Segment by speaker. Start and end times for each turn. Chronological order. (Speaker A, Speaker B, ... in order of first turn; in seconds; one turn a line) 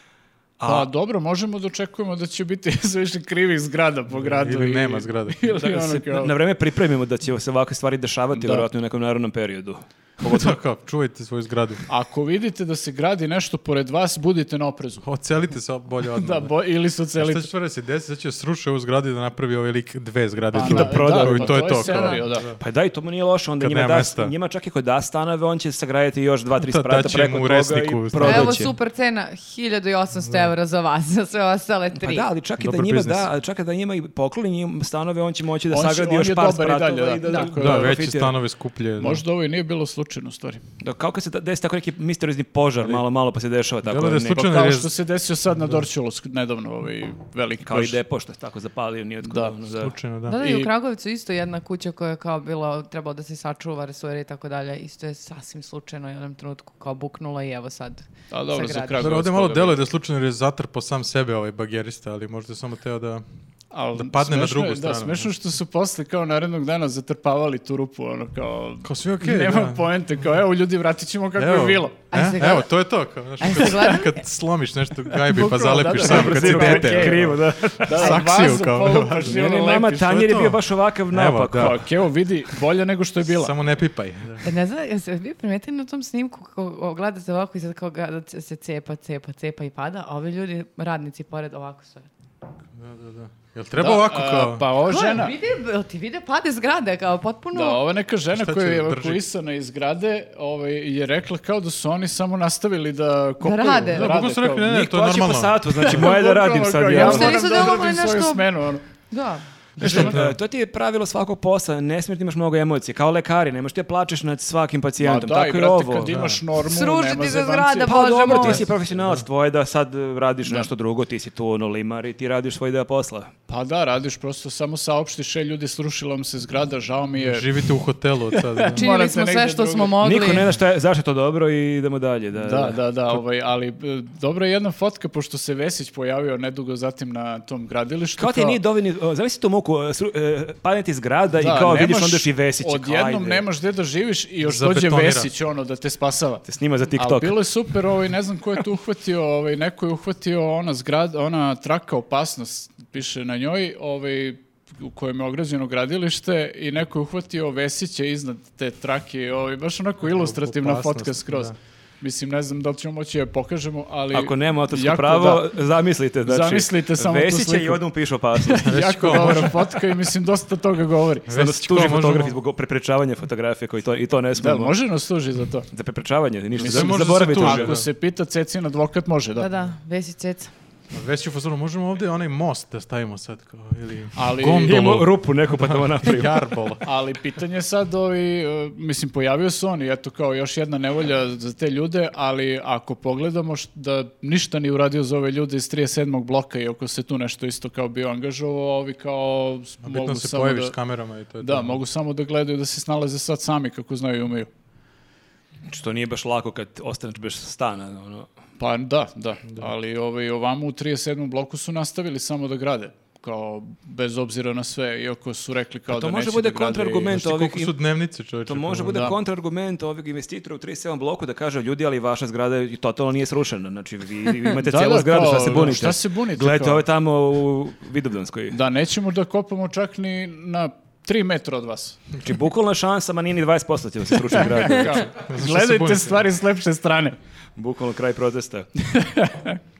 Speaker A: 0.6-0.9
Speaker B: 0.7-6.3
Speaker C: 4.1-5.5
Speaker A: 5.5-10.6
Speaker B: 8.3-8.7
Speaker C: 10.2-11.9
Speaker B: 11.9-15.1
Speaker C: 15.0-22.6
Speaker B: 16.2-17.5
Speaker B: 20.5-22.5
Speaker A: 20.6-28.7
Speaker C: 23.6-24.3
Speaker C: 26.6-28.7
Speaker D: 28.2-32.3
Speaker C: 30.2-30.5
Speaker A: 31.9-38.3
Speaker C: 32.6-33.3
Speaker B: 35.7-38.0
Speaker C: 37.6-39.2
Speaker B: 39.0-40.6
Speaker A: 40.8-44.5
Speaker C: 43.8-44.9
Speaker B: 44.3-48.0
Speaker C: 45.6-45.9
Speaker A: 47.6-49.9
Speaker B: 49.2-49.5
Speaker C: 49.8-50.4
Speaker D: 50.3-59.1
Speaker B: 50.4-50.7
Speaker B: 58.3-59.8
Speaker C: 59.0-63.2
Speaker B: 63.7-72.0
Speaker C: 63.9-65.3
Speaker C: 68.8-69.9
Speaker C: 71.4-79.4
Speaker D: 72.1-72.7
Speaker D: 73.4-74.2
Speaker B: 75.2-80.2
Speaker A: 75.9-78.3
Speaker A: 79.2-81.9
Speaker C: 80.0-81.9
Speaker B: 81.6-83.5
Speaker C: 83.3-84.5
Speaker D: 84.4-92.1
Speaker C: 92.8-94.7
Speaker B: 93.8-95.3
Speaker D: 94.8-97.8
Speaker B: 97.5-104.7
Speaker C: 98.3-99.2
Speaker D: 103.4-104.1
Speaker C: 103.9-106.0
Speaker A: 104.7-107.7
Speaker B: 105.8-108.8
Speaker D: 106.9-108.5
Speaker D: 109.1-109.4
Speaker C: 109.8-110.4
Speaker B: 109.8-110.2
Speaker A: 109.8-116.2
Speaker B: 115.0-118.6
Speaker C: 116.0-116.4
Speaker D: 116.6-118.7
Speaker A: 117.9-123.3
Speaker C: 119.0-119.2
Speaker B: 123.5-127.8
Speaker C: 127.2-128.8
Speaker B: 128.3-130.0
Speaker D: 128.8-130.4
Speaker A: 130.0-133.2
Speaker B: 132.4-138.6
Speaker A: 138.2-143.5
Speaker B: 141.4-146.4
Speaker C: 144.4-145.3
Speaker A: 146.5-147.4
Speaker B: 147.0-165.5
Speaker C: 160.0-161.6
Speaker A: 164.1-169.5
Speaker B: 166.2-167.8
Speaker B: 168.4-171.3
Speaker C: 168.6-169.6
Speaker C: 171.3-172.4
Speaker A: 171.3-174.8
Speaker B: 174.4-175.7
Speaker A: 175.7-177.8
Speaker B: 176.6-179.5
Speaker C: 176.6-177.9
Speaker D: 179.4-180.5
Speaker C: 180.9-186.8
Speaker B: 184.2-184.8
Speaker A: 184.5-186.4
Speaker B: 186.8-200.8
Speaker C: 199.8-201.8
Speaker B: 201.4-204.5
Speaker A: 205.7-208.3
Speaker B: 208.6-217.2
Speaker A: 215.9-217.8
Speaker C: 217.1-219.1
Speaker A: 218.5-228.6
Speaker B: 218.9-219.2
Speaker B: 224.6-226.8
Speaker B: 228.5-232.0
Speaker A: 232.2-235.1
Speaker B: 234.3-237.2
Speaker C: 235.2-236.3
Speaker A: 237.6-238.7
Speaker B: 239.0-239.6